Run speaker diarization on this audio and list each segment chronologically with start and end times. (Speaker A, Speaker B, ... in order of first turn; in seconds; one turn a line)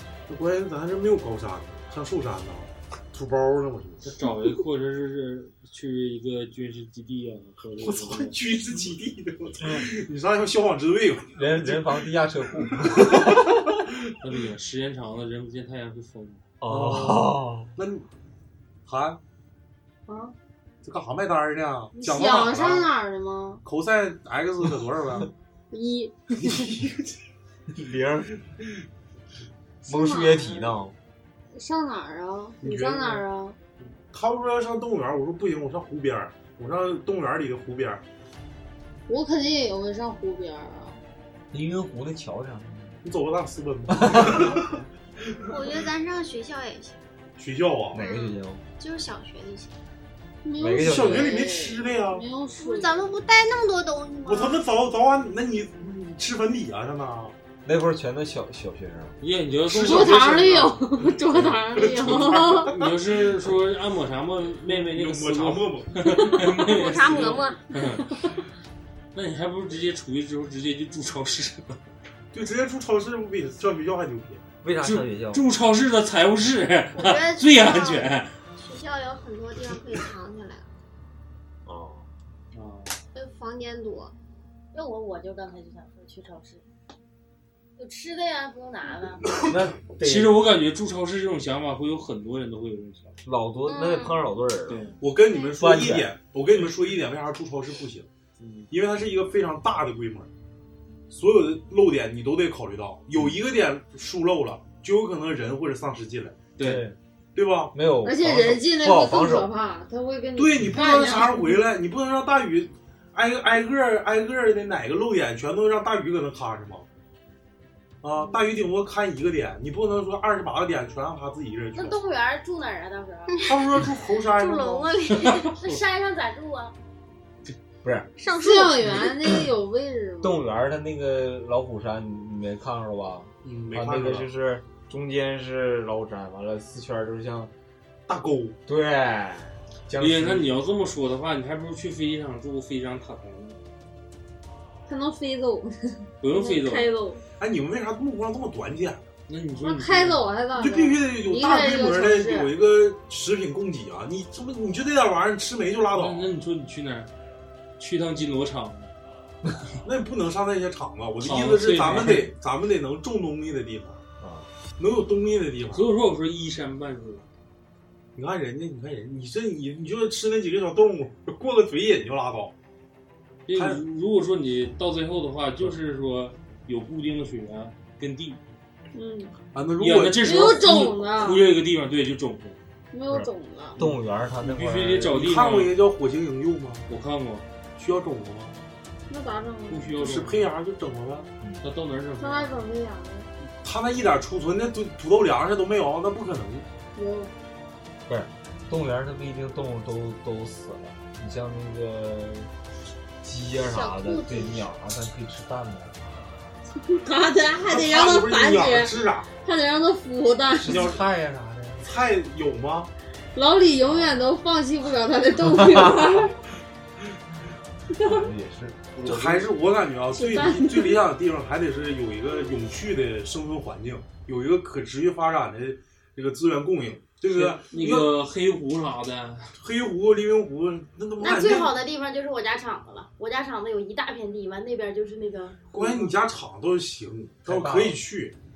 Speaker A: 0.3-4.1
Speaker B: 4.0-8.3
Speaker A: 7.8-14.1
Speaker C: 9.6-9.9
Speaker C: 11.3-13.6
Speaker B: 14.2-16.4
Speaker C: 16.6-17.7
Speaker A: 16.6-18.1
Speaker A: 18.9-19.2
Speaker D: 20.1-20.3
Speaker A: 20.8-22.9
Speaker D: 21.9-23.6
Speaker A: 23.6-25.3
Speaker D: 25.7-26.6
Speaker A: 26.4-27.1
Speaker C: 27.7-28.3
Speaker C: 29.8-30.9
Speaker D: 29.9-30.7
Speaker D: 31.5-33.6
Speaker A: 32.6-33.2
Speaker A: 34.1-38.0
Speaker D: 39.1-41.0
Speaker C: 41.5-43.0
Speaker A: 43.0-45.6
Speaker C: 43.9-44.6
Speaker E: 45.5-47.0
Speaker A: 47.4-48.0
Speaker C: 47.9-48.6
Speaker E: 47.9-49.7
Speaker D: 50.4-53.1
Speaker C: 50.6-51.3
Speaker A: 50.8-52.2
Speaker E: 52.6-54.6
Speaker A: 54.2-57.4
Speaker C: 57.6-59.1
Speaker B: 59.2-68.1
Speaker A: 59.7-60.5
Speaker D: 59.8-62.7
Speaker A: 61.8-63.4
Speaker A: 64.7-67.3
Speaker E: 66.5-67.6
Speaker B: 69.1-71.8
Speaker A: 72.3-74.4
Speaker C: 74.6-75.4
Speaker B: 74.8-78.3
Speaker E: 76.9-80.7
Speaker C: 81.6-82.1
Speaker B: 82.5-82.9
Speaker E: 83.1-84.1
Speaker F: 84.7-86.6
Speaker F: 87.8-89.3
Speaker C: 89.4-90.4
Speaker B: 90.0-93.2
Speaker C: 93.2-94.9
Speaker E: 93.7-94.1
Speaker B: 94.7-95.0
Speaker A: 95.0-98.1
Speaker C: 95.6-96.1
Speaker B: 98.4-98.7
Speaker A: 98.7-100.3
Speaker A: 101.1-106.4
Speaker B: 106.6-106.8
Speaker C: 106.6-107.0
Speaker A: 107.3-107.7
Speaker C: 107.7-109.5
Speaker D: 108.0-111.5
Speaker A: 110.3-116.8
Speaker A: 118.0-122.0
Speaker F: 121.7-123.4
Speaker E: 123.3-123.6
Speaker A: 123.4-124.9
Speaker E: 124.2-125.5
Speaker F: 125.2-126.8
Speaker C: 127.8-128.1
Speaker E: 128.2-129.1
Speaker D: 128.4-130.4
Speaker C: 130.2-137.5
Speaker A: 133.4-134.3
Speaker A: 138.1-138.6
Speaker C: 138.7-140.5
Speaker B: 140.0-143.6
Speaker D: 144.9-147.2
Speaker B: 146.2-146.9
Speaker A: 147.4-149.1
Speaker B: 149.3-150.2
Speaker D: 149.6-152.5
Speaker A: 150.6-156.3
Speaker B: 155.9-157.1
Speaker B: 157.8-158.9
Speaker A: 159.8-164.0
Speaker B: 161.2-162.3
Speaker C: 164.2-164.5
Speaker A: 164.8-165.9
Speaker B: 165.7-167.2
Speaker A: 168.1-172.5
Speaker B: 173.5-178.4
Speaker A: 173.5-173.8
Speaker D: 178.9-179.3
Speaker A: 179.5-180.6
Speaker B: 179.8-182.6
Speaker D: 180.2-181.4
Speaker D: 182.9-183.8
Speaker C: 183.1-185.2
Speaker B: 183.8-185.7
Speaker A: 185.1-186.8
Speaker B: 186.9-187.4
Speaker A: 187.8-188.6
Speaker D: 189.1-189.9
Speaker B: 189.7-190.5
Speaker A: 189.9-191.3
Speaker B: 191.6-192.5
Speaker D: 192.2-193.3
Speaker A: 193.6-196.7
Speaker D: 196.9-197.3
Speaker C: 198.1-202.5
Speaker C: 203.2-206.0
Speaker D: 203.7-204.6
Speaker D: 206.8-210.8
Speaker A: 207.6-209.3
Speaker C: 210.5-212.0
Speaker A: 210.7-211.0
Speaker A: 211.8-212.9
Speaker D: 213.3-216.3
Speaker C: 213.8-214.2
Speaker C: 215.6-216.0
Speaker D: 218.0-218.2
Speaker C: 218.0-219.4
Speaker B: 218.9-219.4
Speaker A: 219.0-228.1
Speaker D: 220.1-221.0
Speaker B: 227.3-229.5
Speaker A: 229.6-231.7
Speaker F: 231.2-236.1
Speaker A: 235.7-238.3
Speaker C: 237.4-238.0